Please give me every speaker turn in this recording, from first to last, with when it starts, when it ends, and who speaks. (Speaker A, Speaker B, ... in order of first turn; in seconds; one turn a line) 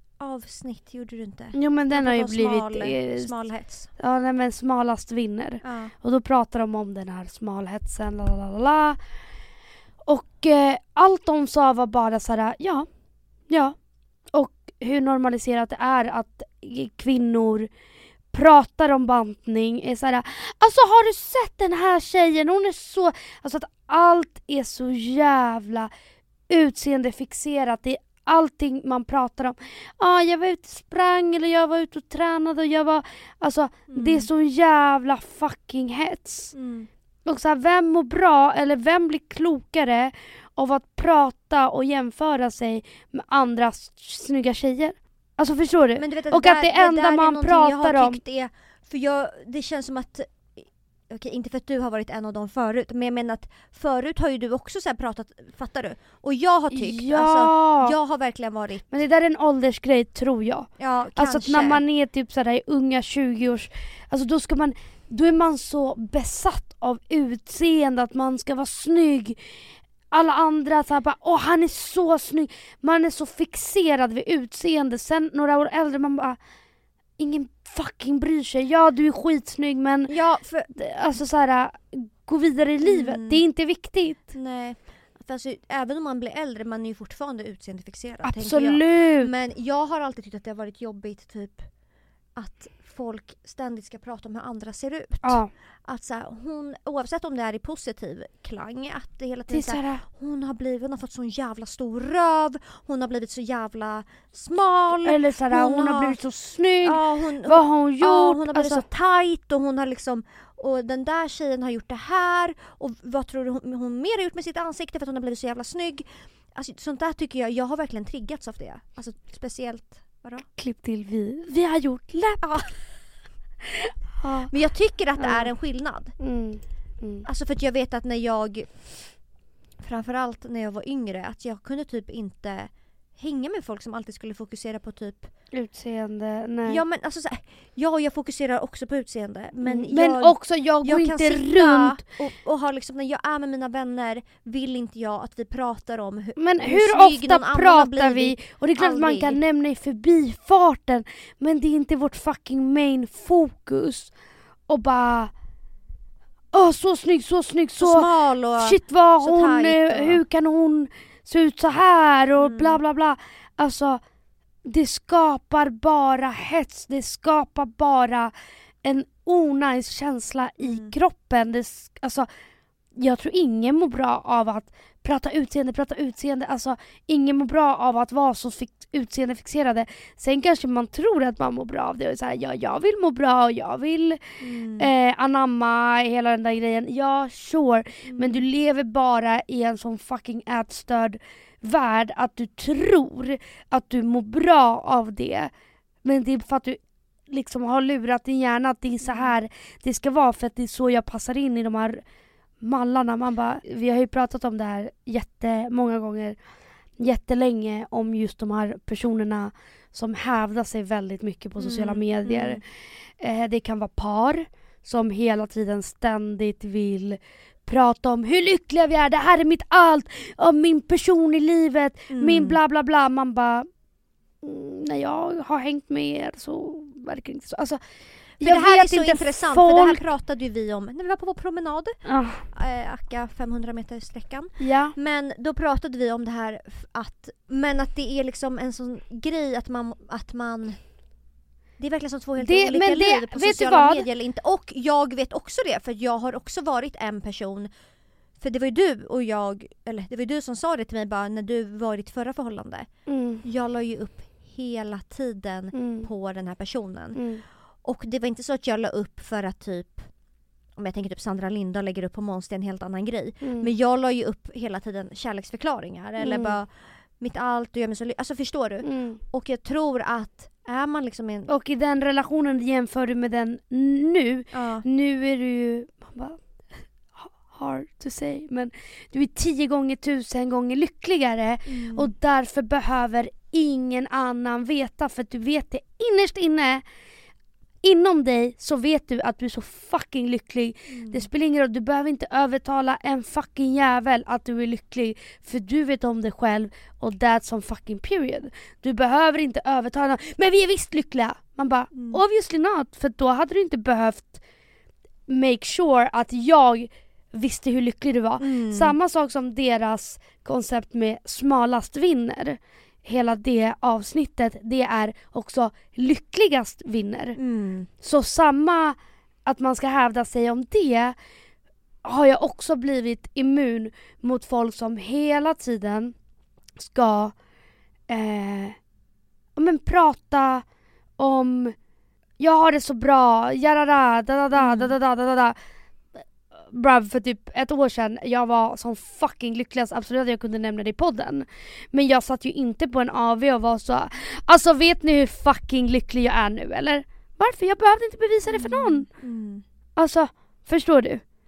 Speaker A: 0.2-3.9
Speaker B: 1.5-3.3
Speaker B: 3.9-9.0
Speaker A: 5.6-5.9
Speaker B: 10.1-12.9
Speaker B: 13.5-13.8
Speaker B: 14.3-17.7
Speaker B: 18.3-25.9
Speaker B: 26.5-36.5
Speaker A: 33.9-34.3
Speaker A: 36.5-36.9
Speaker B: 37.2-48.2
Speaker A: 46.0-58.8
Speaker B: 56.7-57.9
Speaker B: 58.9-69.4
Speaker A: 60.8-61.8
Speaker B: 70.1-76.4
Speaker B: 77.2-80.1
Speaker A: 80.1-80.7
Speaker B: 80.7-84.3
Speaker A: 82.8-83.4
Speaker A: 84.3-91.7
Speaker B: 88.2-89.3
Speaker A: 92.3-106.2
Speaker B: 95.2-95.5
Speaker B: 99.5-100.0
Speaker B: 105.0-108.8
Speaker A: 106.8-120.5
Speaker B: 120.6-122.7
Speaker A: 122.4-122.7
Speaker B: 124.2-124.5
Speaker A: 124.5-126.2
Speaker B: 125.2-125.5
Speaker B: 126.2-127.2
Speaker A: 127.2-129.2
Speaker A: 129.8-135.3
Speaker B: 135.5-136.8
Speaker A: 136.6-149.4
Speaker B: 139.6-142.0
Speaker B: 146.4-154.1
Speaker B: 154.7-155.3
Speaker B: 156.5-164.0
Speaker A: 157.8-160.2
Speaker A: 162.3-162.8
Speaker B: 164.6-172.3
Speaker A: 170.6-170.9
Speaker B: 172.9-195.5
Speaker A: 184.4-184.9
Speaker A: 188.0-188.4
Speaker B: 196.0-202.0
Speaker A: 199.0-199.3
Speaker B: 202.6-206.4
Speaker B: 207.0-223.7
Speaker A: 211.6-212.6
Speaker A: 222.1-222.6
Speaker B: 224.4-227.8
Speaker B: 228.4-230.0
Speaker A: 228.4-240.8
Speaker B: 232.1-232.5
Speaker B: 234.6-234.9
Speaker A: 241.8-247.7
Speaker B: 242.4-244.0
Speaker A: 248.4-260.1
Speaker B: 253.1-253.4
Speaker B: 255.7-256.1
Speaker B: 257.1-257.4
Speaker A: 260.7-271.5
Speaker B: 263.4-263.7
Speaker B: 266.2-266.6
Speaker B: 268.8-269.2
Speaker B: 271.5-286.8
Speaker A: 274.5-274.8
Speaker A: 281.6-282.1
Speaker B: 287.8-304.4
Speaker A: 290.9-291.3
Speaker A: 301.9-302.2
Speaker B: 305.3-317.4
Speaker A: 308.4-308.9
Speaker A: 317.4-317.9
Speaker B: 318.0-321.1
Speaker B: 322.0-326.1
Speaker B: 326.8-327.3
Speaker B: 328.1-328.8
Speaker B: 329.6-330.6
Speaker B: 331.2-331.7
Speaker B: 332.4-335.6
Speaker A: 334.5-334.9
Speaker B: 336.5-349.1
Speaker A: 348.5-349.6
Speaker B: 350.0-351.2